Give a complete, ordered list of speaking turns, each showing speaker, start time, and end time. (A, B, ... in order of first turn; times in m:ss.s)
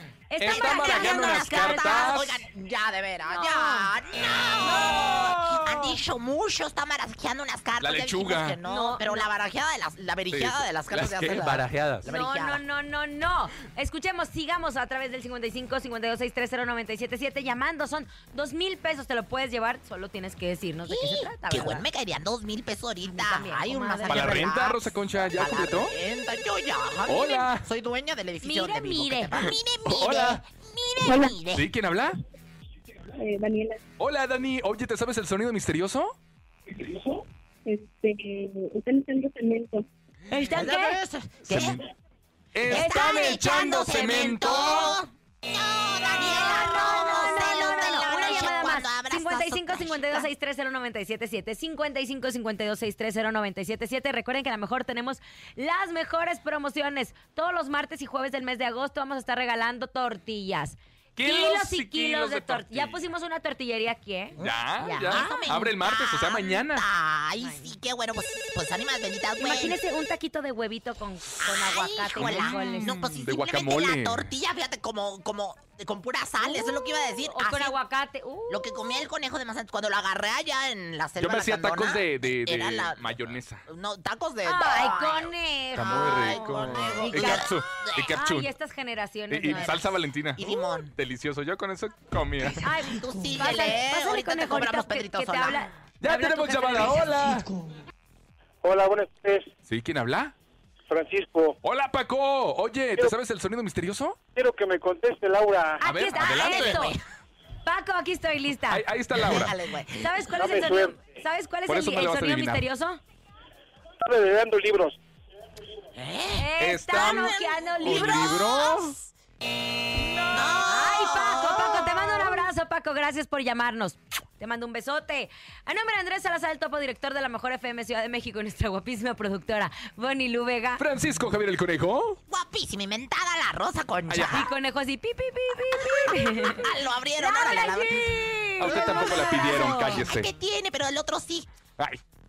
0:00.3-0:02.1 A
0:00.4-0:02.4 B
0:00.5-0:12.6 C
0:03.3-0:03.9 A
0:04.6-0:06.0 B
0:07.8-0:08.6 B
0:08.6-0:09.3 A
0:10.3-0:12.0 B
0:12.0-0:21.8 A
0:20.9-0:31.6 C
0:23.1-0:24.5 A
0:24.1-0:25.9 B
0:27.1-0:27.6 B
0:28.4-0:29.4 A
0:29.4-0:30.4 B
0:31.5-0:32.2 B
0:33.2-0:33.8 D
0:34.0-0:36.1 B
0:36.7-0:37.0 D
0:37.6-0:39.8 D
0:40.3-0:41.0 A
0:40.5-0:41.8 C
0:41.4-0:41.8 B
0:42.5-0:45.0 B
0:42.6-0:50.3 C
0:42.7-0:43.3 A
0:46.2-1:05.4 A
1:01.2-1:03.0 B
1:04.4-1:06.8 B
1:04.4-1:09.8 C
1:07.4-1:07.7 A
1:09.4-1:13.1 A
1:11.4-1:17.8 C
1:12.2-1:14.3 B
1:16.4-1:19.0 A
1:18.5-1:28.2 C
1:21.2-1:23.6 B
1:24.4-1:27.5 A
1:25.7-1:28.5 B
1:28.2-1:29.8 A
1:29.3-1:32.6 B
1:29.5-1:29.8 C
1:30.4-1:30.9 C
1:32.4-1:35.6 C
1:32.6-1:37.2 A
1:36.0-1:37.4 B
1:38.6-1:39.5 E
1:39.7-1:40.3 B
1:40.9-1:41.5 E
1:41.6-1:44.2 B
1:44.3-1:45.8 E
1:45.8-1:46.9 A
1:45.8-1:46.9 B
1:46.1-1:47.0 C
1:47.6-1:48.8 A
1:48.7-1:49.5 B
1:49.1-1:50.2 C
1:50.0-1:53.0 A
1:50.3-1:51.0 E
1:51.7-1:52.6 B
1:54.0-1:54.9 E
1:55.9-1:58.9 C
1:56.4-1:58.5 A
1:56.6-1:59.0 B
2:00.2-2:10.8 A
2:00.3-2:02.3 C
2:10.8-2:12.2 B
2:12.3-2:14.5 C
2:14.1-2:14.5 B
2:14.3-2:20.0 A
2:15.8-2:18.1 C
2:18.6-2:20.3 B
2:18.7-2:21.5 C